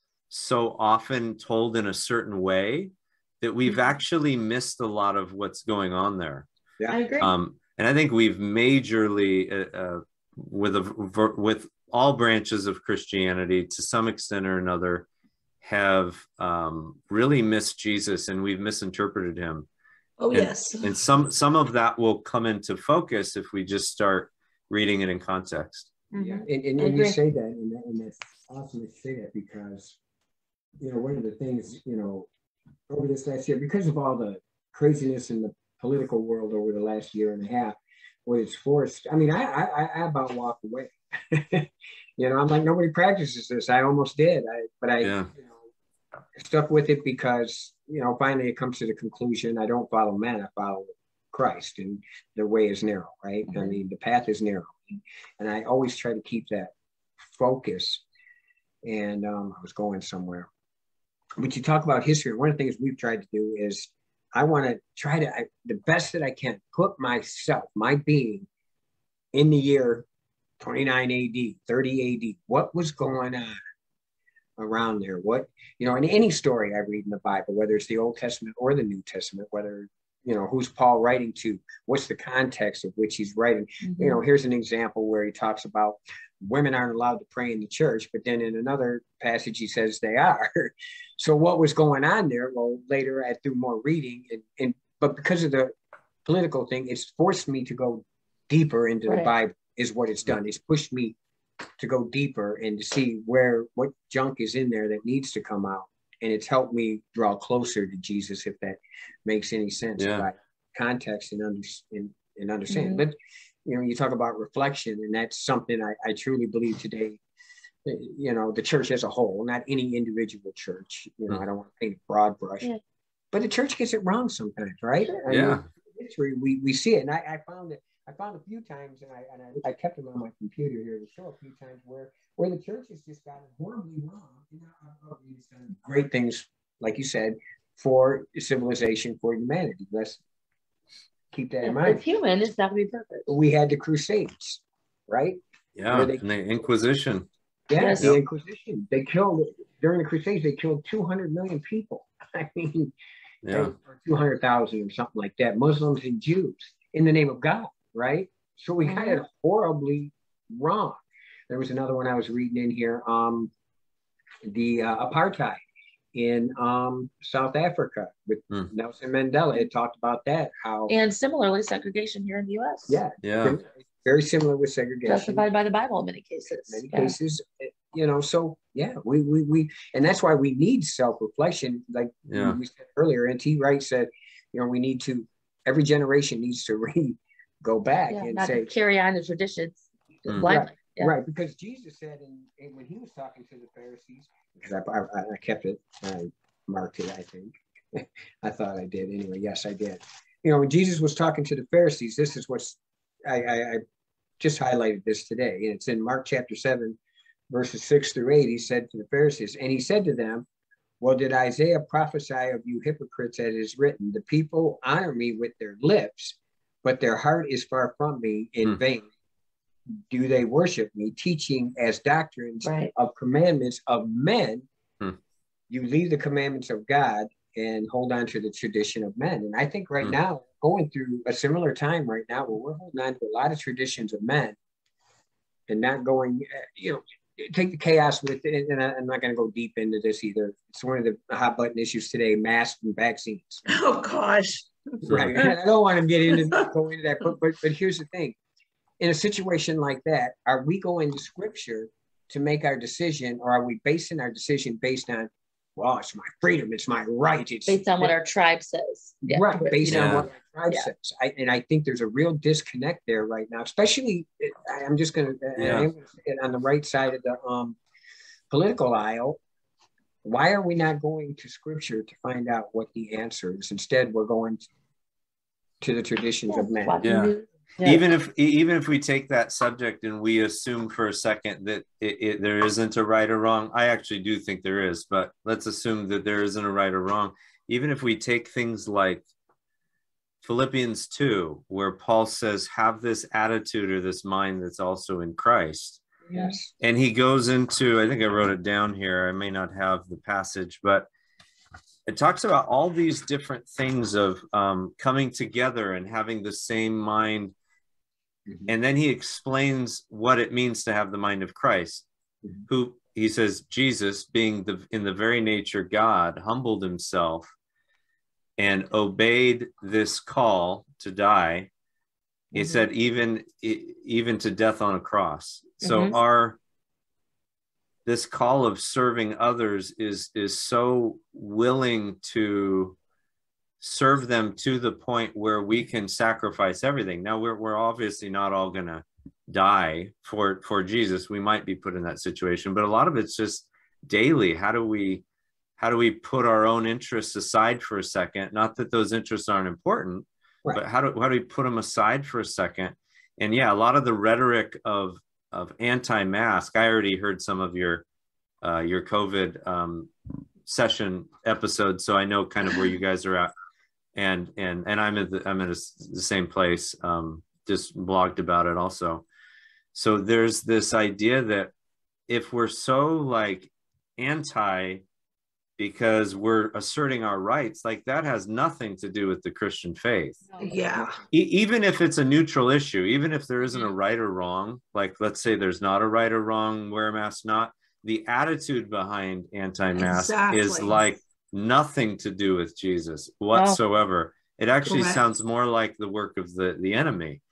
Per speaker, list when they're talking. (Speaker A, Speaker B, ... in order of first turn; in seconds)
Speaker A: 0.3-6.5, 7.2-15.1, 15.6-19.7, 20.3-25.9, 45.0-45.3, 110.0-110.2, 125.3-125.6, 145.8-147.3, 153.4-153.7, 173.2-173.6, 182.3-182.6, 245.1-245.4, 259.8-260.3, 265.6-265.9, 277.0-277.3, 277.8-289.2, 290.4-296.0, 296.8-301.1, 302.1-307.5, 308.7-312.0, 312.7-317.5, 318.6-321.7, 322.5-326.6, 328.1-333.0, 333.8-345.2, 345.8-358.0, 358.6-360.1, 360.6-363.5, 364.1-369.2, 369.9-371.7, 372.3-375.0, 375.8-380.4, 381.3-397.4
Speaker B: 6.9-7.3, 26.8-27.1, 83.8-84.2, 112.7-113.0, 141.6-143.3, 147.8-148.1, 158.8-159.2, 170.9-173.0, 175.1-177.1, 188.1-189.8, 190.4-191.1, 222.6-222.9, 257.7-260.9, 276.5-278.0, 296.2-296.6, 322.6-322.8, 325.8-326.2, 380.5-380.8
Speaker C: 20.2-20.9, 26.1-26.4, 243.7-244.7, 246.3-246.7, 380.6-381.2, 390.0-391.0, 394.9-395.2
Speaker D: 26.1-30.0, 30.8-32.3, 32.9-45.5, 46.3-56.7, 57.3-58.0, 58.8-60.5, 61.4-68.5, 69.3-70.0, 70.6-73.6, 74.6-101.2, 101.8-117.2, 117.8-122.7, 123.3-140.2, 141.3-142.0, 143.3-146.2, 147.7-152.9, 153.5-163.5, 164.4-165.6, 166.1-170.9, 172.9-175.4, 176.7-188.7, 190.3-203.8, 204.4-207.0, 207.5-210.4, 211.0-219.1, 220.1-224.7, 225.7-234.6, 235.7-243.6, 245.0-248.3, 249.0-258.1, 259.2-267.8, 268.5-269.4, 270.2-274.7, 275.8-277.0, 296.3-296.7